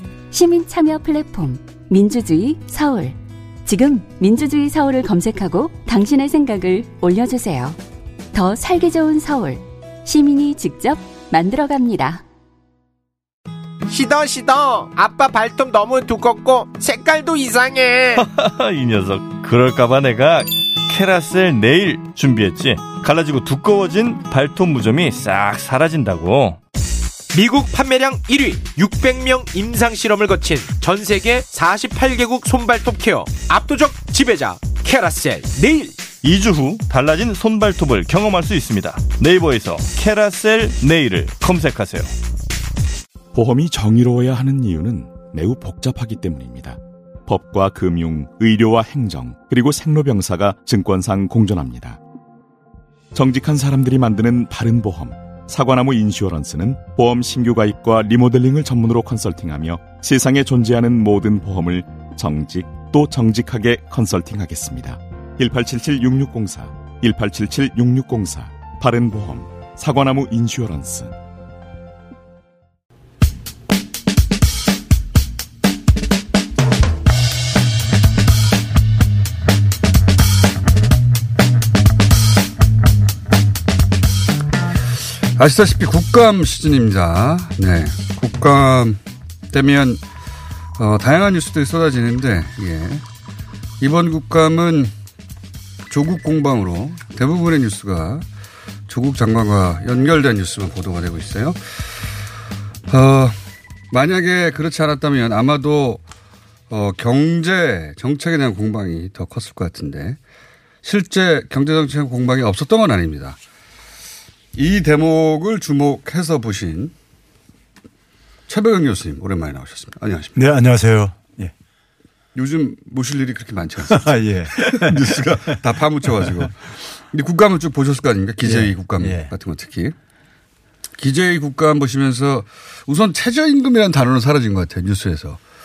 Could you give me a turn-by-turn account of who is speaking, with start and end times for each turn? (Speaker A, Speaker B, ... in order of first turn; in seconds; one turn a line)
Speaker A: 0.3-7.8
Speaker A: 8.3-12.2
Speaker B: 13.9-18.2
Speaker C: 18.4-26.6
Speaker B: 27.3-35.9
Speaker C: 36.2-42.0
Speaker D: 43.3-52.0
Speaker D: 53.1-71.1
Speaker E: 85.3-89.0
Speaker E: 89.5-90.0
Speaker E: 90.8-93.0
Speaker E: 93.8-94.9
Speaker E: 95.9-98.2
Speaker E: 98.9-101.9
Speaker E: 102.9-103.4
Speaker E: 103.9-106.0
Speaker E: 106.7-110.2
Speaker E: 110.8-113.4
Speaker E: 114.5-116.9
Speaker E: 118.5-120.4
Speaker F: 120.4-121.5
Speaker E: 122.3-129.9
Speaker F: 123.9-125.5
Speaker F: 128.4-129.3
Speaker E: 131.0-135.4